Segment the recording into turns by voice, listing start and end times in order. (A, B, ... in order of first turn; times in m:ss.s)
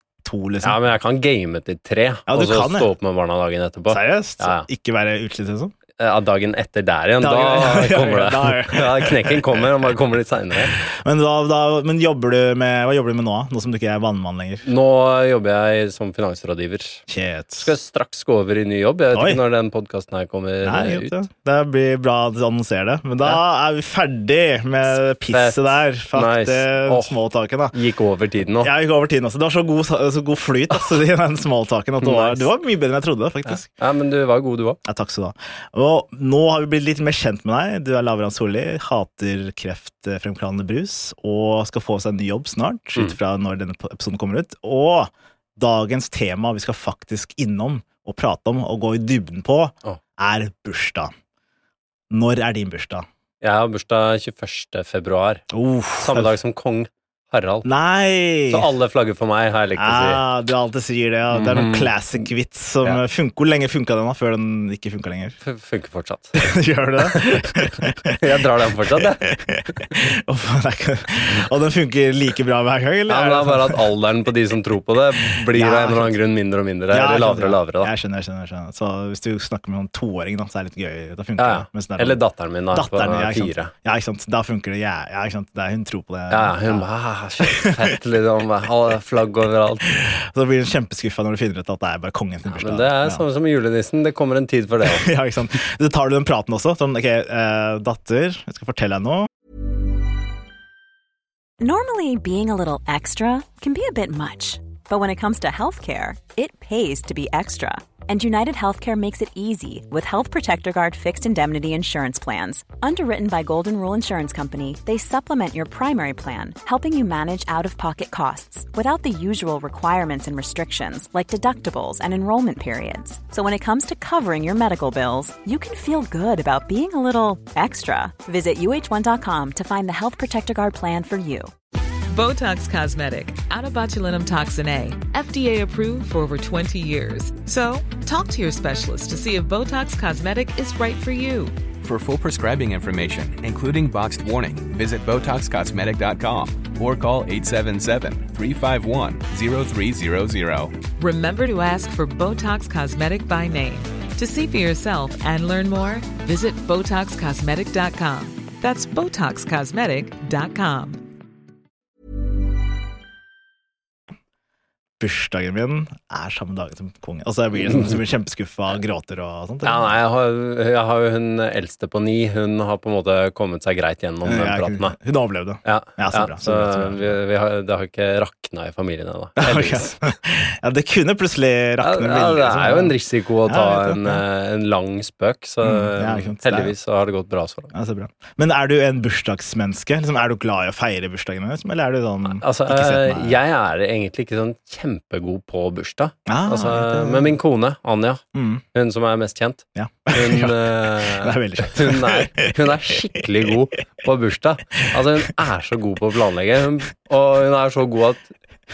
0:00.2-0:00.8 A
0:00.6-0:04.7 B
0:02.3-0:02.9 A
0:03.9-0:05.7 A
0:06.0-0:10.8 B
0:07.2-0:09.4 A
0:11.0-0:14.7 A
0:14.6-0:17.0 B
0:17.1-0:17.7 A
0:17.6-0:21.1 B
0:19.1-0:19.4 A
0:20.6-0:27.7 A
0:25.3-0:27.2 B
0:27.7-0:28.7 B
0:28.6-0:33.6 A
0:32.0-0:32.5 B
0:33.5-0:34.8 B
0:34.8-0:51.1 A
0:52.1-0:53.1 A
0:53.4-0:55.4 B
0:55.5-0:56.3 A
0:56.0-0:57.7 B
0:57.6-0:58.7 A
0:58.5-1:00.2 B
0:59.8-1:05.4 A
1:01.3-1:02.3 B
1:05.4-1:06.3 B
1:06.4-1:08.1 A
1:07.2-1:07.4 B
1:08.1-1:09.2 B
1:09.2-1:13.8 A
1:13.1-1:17.9 B
1:15.2-1:16.2 A
1:16.9-1:22.2 A
1:21.4-1:23.7 B
1:22.7-1:26.8 A
1:26.3-1:29.9 B
1:27.4-1:27.8 A
1:29.9-1:33.2 A
1:32.5-1:35.1 B
1:34.9-1:39.3 A
1:41.6-2:11.5 C
2:12.1-2:21.6 D
2:21.8-2:30.8 E
2:31.0-2:41.0 D
2:45.0-2:50.0 A
2:49.6-2:55.0 B
2:54.2-2:57.2 A
2:55.6-3:00.0 B
2:59.4-3:03.0 A
3:01.8-3:07.7 B
3:03.5-3:04.2 A
3:05.6-3:06.7 A
3:07.7-3:13.4 A
3:12.3-3:28.3 B
3:16.3-3:17.3 A
3:18.3-3:18.6 A
3:19.8-3:22.4 A